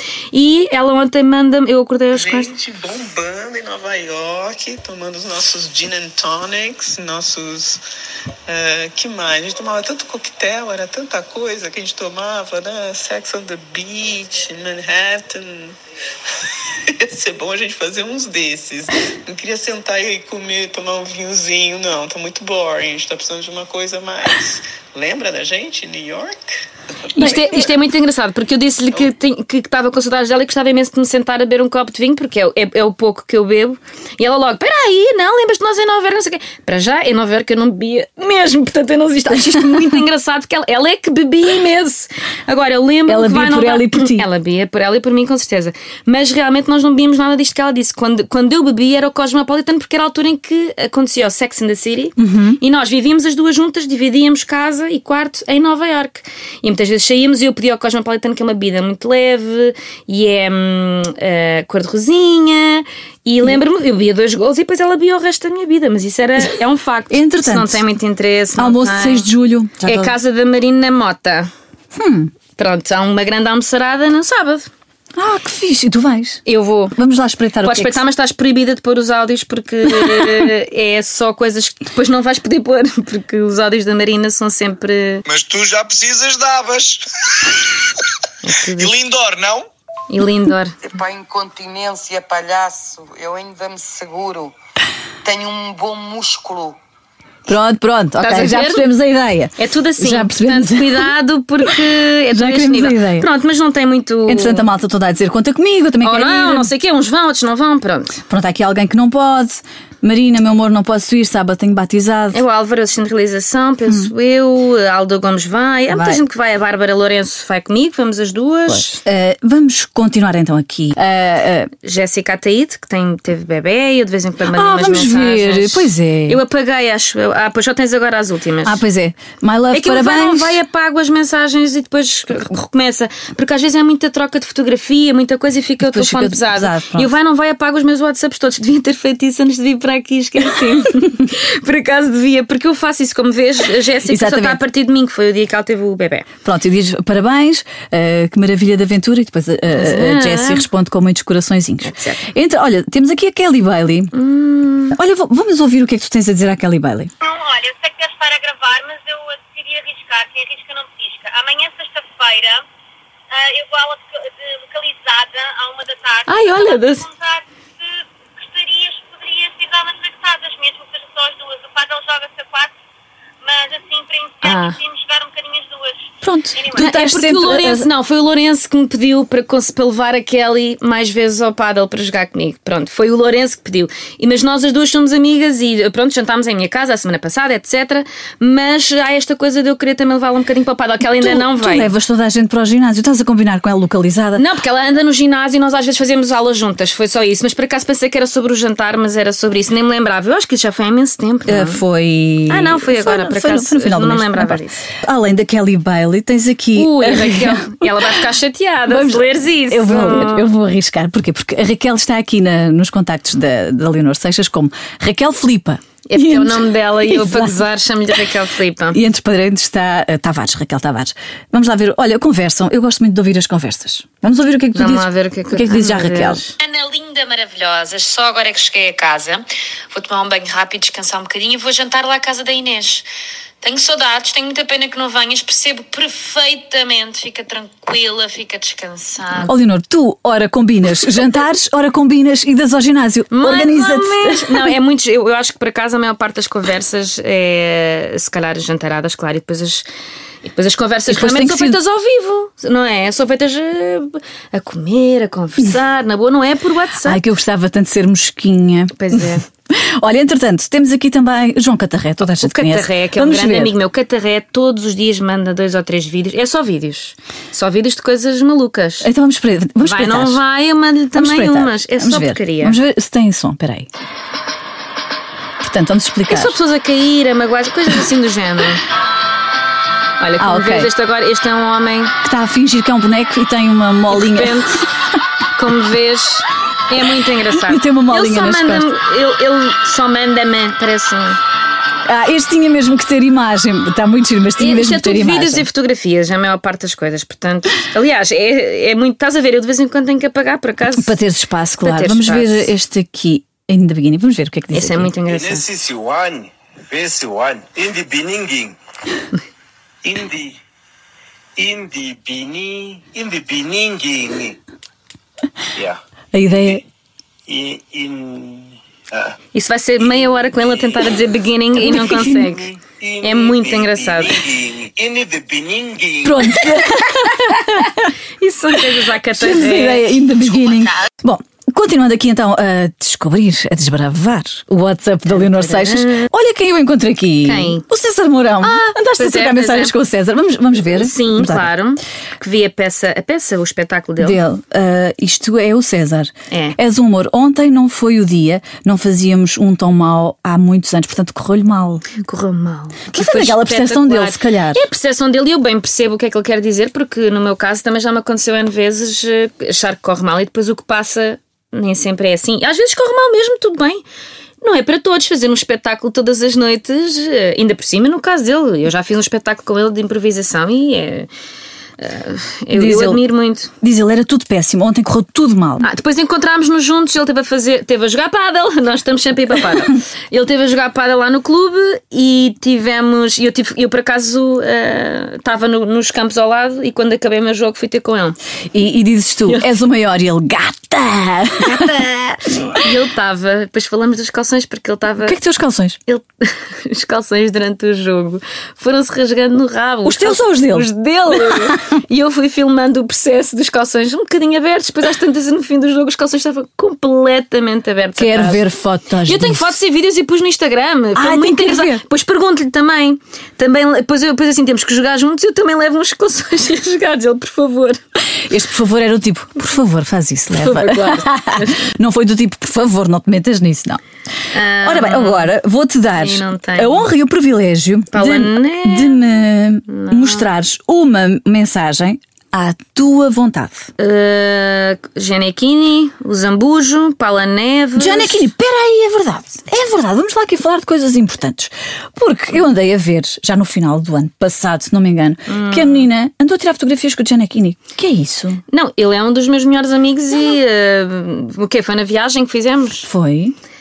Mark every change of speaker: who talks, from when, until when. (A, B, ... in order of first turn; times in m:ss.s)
0:00.3-0:02.5 A
0:02.1-0:07.8 B
0:08.5-0:15.7 B
0:17.0-0:26.4 B
0:27.1-1:09.3 A
0:27.2-0:27.7 C
0:43.1-0:44.3 C
0:52.2-0:52.6 C
1:07.1-1:07.8 C
1:08.6-1:10.1 C
1:09.8-1:11.5 A
1:11.9-1:12.3 C
1:12.6-1:14.7 A
1:15.2-1:16.4 C
1:16.4-1:17.0 A
1:16.9-1:18.0 C
1:17.6-1:25.2 A
1:19.9-1:20.5 C
1:25.3-1:27.0 D
1:28.4-1:29.0 A
1:28.7-1:29.7 D
1:30.1-1:30.8 A
1:30.8-1:34.5 E
1:35.2-1:36.8 E
1:37.5-1:41.1 C
1:38.2-1:38.8 A
1:39.6-1:44.6 A
1:42.3-1:43.3 C
1:44.3-1:46.7 C
1:46.0-1:48.2 A
1:48.3-1:52.4 C
1:52.3-1:59.0 A
1:55.9-1:56.2 C
1:58.7-2:01.7 C
2:01.8-2:08.8 A
2:04.5-2:06.4 C
2:08.6-2:10.6 C
2:09.7-2:26.3 A
2:15.8-2:17.1 C
2:24.1-2:24.6 C
2:26.4-2:34.1 C
2:29.7-2:30.6 A
2:31.8-2:32.2 A
2:34.1-2:35.0 A
2:34.9-2:37.1 C
2:37.2-2:42.6 F
2:43.3-2:52.7 F
2:46.3-2:47.1 A
2:53.4-2:56.9 F
2:54.4-2:54.8 A
2:56.2-2:57.9 C
2:56.7-3:11.9 A
3:11.0-3:14.4 C
3:14.4-3:21.8 A
3:21.5-3:28.2 C
3:22.5-3:24.9 A
3:26.7-3:30.5 A
3:28.9-3:37.6 C
3:36.1-3:39.0 A
3:38.9-3:46.4 C
3:44.7-3:53.0 A
3:53.6-3:59.5 A
3:59.4-4:04.7 C
4:03.3-4:09.8 A
4:10.4-4:17.2 A
4:11.1-4:11.8 C
4:17.0-4:23.8 C
4:18.9-4:19.4 A
4:22.4-4:29.1 A
4:29.0-4:30.4 C
4:29.8-4:32.8 A
4:31.1-4:33.9 C
4:35.6-4:36.6 C
4:36.3-4:38.8 A
4:40.2-4:42.1 A
4:40.4-4:40.9 C
4:42.2-4:44.8 C
4:44.1-4:44.8 A
4:45.6-4:51.4 A
4:47.5-4:49.0 C
4:52.0-4:55.7 C
4:54.6-5:01.2 A
5:00.9-5:05.1 C
5:01.8-5:02.7 A
5:04.7-5:05.7 A
5:05.3-5:08.8 G
5:10.0-5:10.6 G
5:11.6-5:14.6 G
5:16.3-5:16.8 C
5:17.5-5:19.3 G
5:19.5-5:22.7 A
5:20.0-5:26.5 G
5:21.8-5:22.4 C
5:23.2-5:24.4 A
5:26.2-5:28.1 C
5:28.4-5:30.1 A
5:29.3-5:41.7 C
5:35.3-5:36.3 A
5:37.4-5:37.8 A
5:38.6-5:39.9 A
5:40.9-5:44.4 A
5:44.2-5:52.1 C
5:46.5-5:46.8 A
5:52.2-6:04.0 A
5:53.1-5:54.8 C
6:04.6-6:11.3 A
6:12.0-6:13.7 A
6:12.7-6:13.2 C
6:13.8-6:15.9 C
6:15.8-6:28.4 A
6:28.7-6:32.0 C
6:31.6-6:35.4 A
6:32.6-6:32.8 C
6:35.2-6:36.0 C
6:36.1-6:48.6 A
6:40.0-6:41.8 C
6:48.2-6:49.7 C
6:49.2-6:58.0 A
6:51.1-6:52.0 C
6:58.4-7:04.0 C
7:00.6-7:01.9 A
7:04.5-7:05.5 A
7:04.8-7:13.9 C
7:06.2-7:07.1 A
7:08.1-7:09.3 A
7:09.9-7:10.5 A
7:14.0-7:18.5 A
7:18.0-7:28.6 C
7:25.5-7:26.1 A
7:28.7-7:33.1 A
7:33.0-7:33.6 C